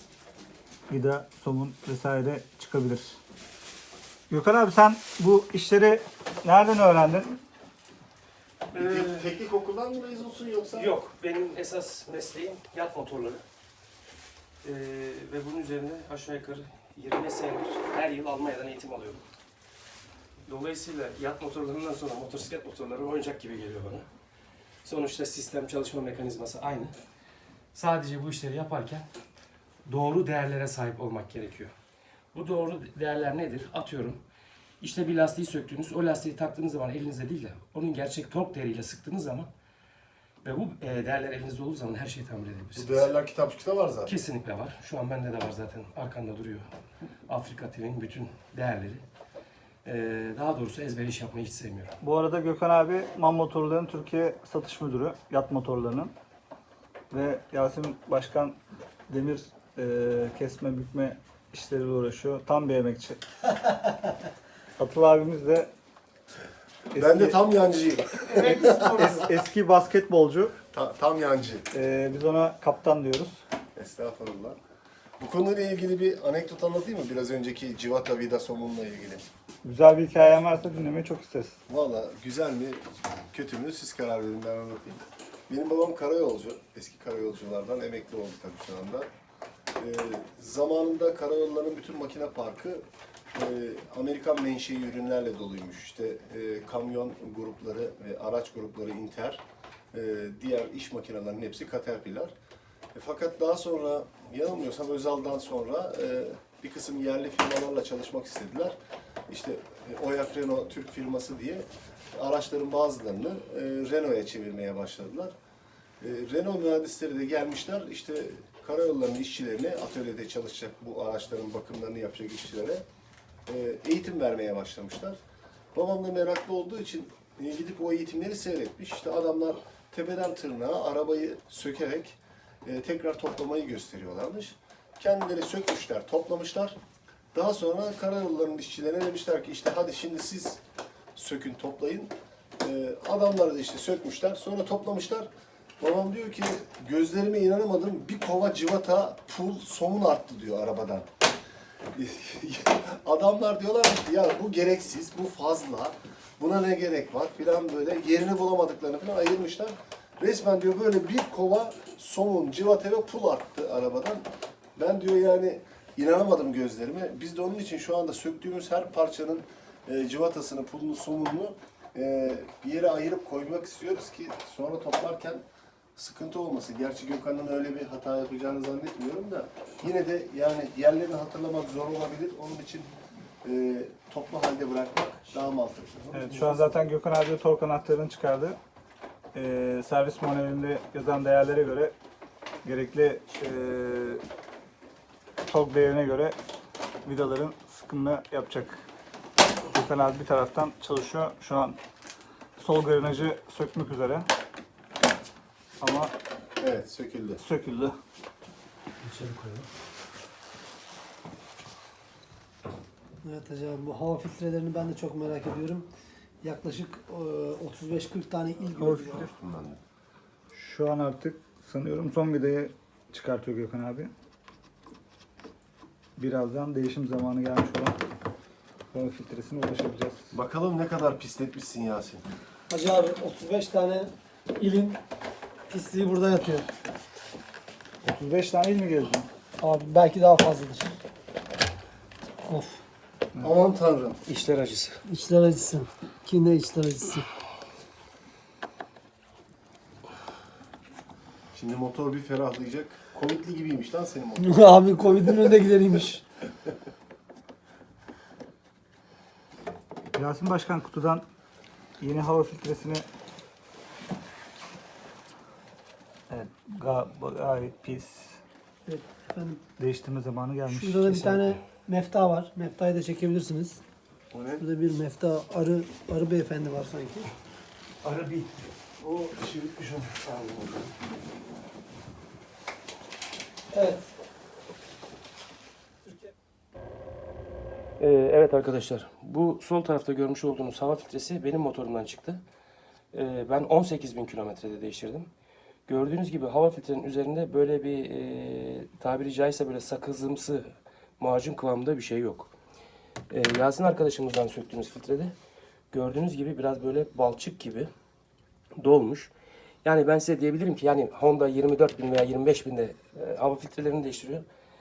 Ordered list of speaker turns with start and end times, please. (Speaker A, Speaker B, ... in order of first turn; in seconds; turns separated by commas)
Speaker A: 0.9-3.2, Speaker A: 4.3-7.4, Speaker B: 8.7-9.3, Speaker C: 8.7-10.9, Speaker B: 10.7-13.4, Speaker B: 14.6-19.2, Speaker B: 20.4-24.1, Speaker B: 24.8-26.9, Speaker B: 27.7-29.1, Speaker B: 29.9-31.7, Speaker B: 32.3-34.2, Speaker B: 34.8-39.5, Speaker B: 40.4-43.1, Speaker C: 42.8-44.1, Speaker B: 44.0-46.7, Speaker B: 47.3-49.0, Speaker B: 49.9-51.9, Speaker A: 52.0-56.1, Speaker A: 57.1-58.6, Speaker A: 59.1-63.2, Speaker A: 64.8-65.7, Speaker A: 66.9-67.4, Speaker C: 67.0-69.3, Speaker D: 68.3-69.2, Speaker A: 68.4-70.6, Speaker C: 70.7-71.7, Speaker A: 71.7-73.4, Speaker C: 73.8-74.6, Speaker C: 75.2-79.2, Speaker A: 79.6-81.6, Speaker C: 81.7-89.1, Speaker C: 89.8-102.3, Speaker C: 102.9-108.8, Speaker C: 109.3-115.3, Speaker C: 116.0-122.8, Speaker C: 123.5-125.2, Speaker C: 125.7-136.8, Speaker C: 137.3-140.6, Speaker C: 141.2-145.3, Speaker C: 145.8-151.1, Speaker C: 151.9-164.2, Speaker C: 164.8-175.4, Speaker C: 176.0-182.9, Speaker C: 183.4-186.7, Speaker A: 186.1-188.6, Speaker A: 189.3-191.9, Speaker A: 192.6-194.2, Speaker A: 195.5-196.4, Speaker A: 197.1-198.8, Speaker A: 199.7-201.8, Speaker A: 202.6-204.3, Speaker A: 205.8-206.1, Speaker C: 206.6-207.4, Speaker A: 207.4-208.0, Speaker B: 209.0-209.7, Speaker D: 213.2-215.9, Speaker D: 216.4-219.2, Speaker A: 218.8-219.3, Speaker C: 218.8-219.8, Speaker A: 220.5-224.1, Speaker A: 226.2-228.0, Speaker A: 228.9-230.3, Speaker C: 230.3-232.2, Speaker D: 232.7-235.0, Speaker D: 235.7-236.7, Speaker A: 238.0-239.3, Speaker D: 239.6-241.0, Speaker D: 242.5-242.8, Speaker C: 243.4-244.2, Speaker B: 244.2-245.0, Speaker D: 245.1-247.3, Speaker C: 251.5-255.2, Speaker D: 254.4-256.2, Speaker A: 260.1-261.2, Speaker A: 262.0-263.1, Speaker A: 266.3-268.4, Speaker D: 268.9-269.6, Speaker A: 269.8-271.2, Speaker D: 270.7-273.8, Speaker B: 271.1-271.6, Speaker C: 274.3-274.6, Speaker D: 274.6-277.3, Speaker B: 278.0-278.5, Speaker C: 279.0-280.8, Speaker D: 283.7-284.1, Speaker B: 288.0-292.4, Speaker B: 293.1-295.3, Speaker B: 295.9-302.5, Speaker B: 303.3-305.3, Speaker B: 305.9-307.9, Speaker B: 308.8-309.3, Speaker B: 309.8-314.4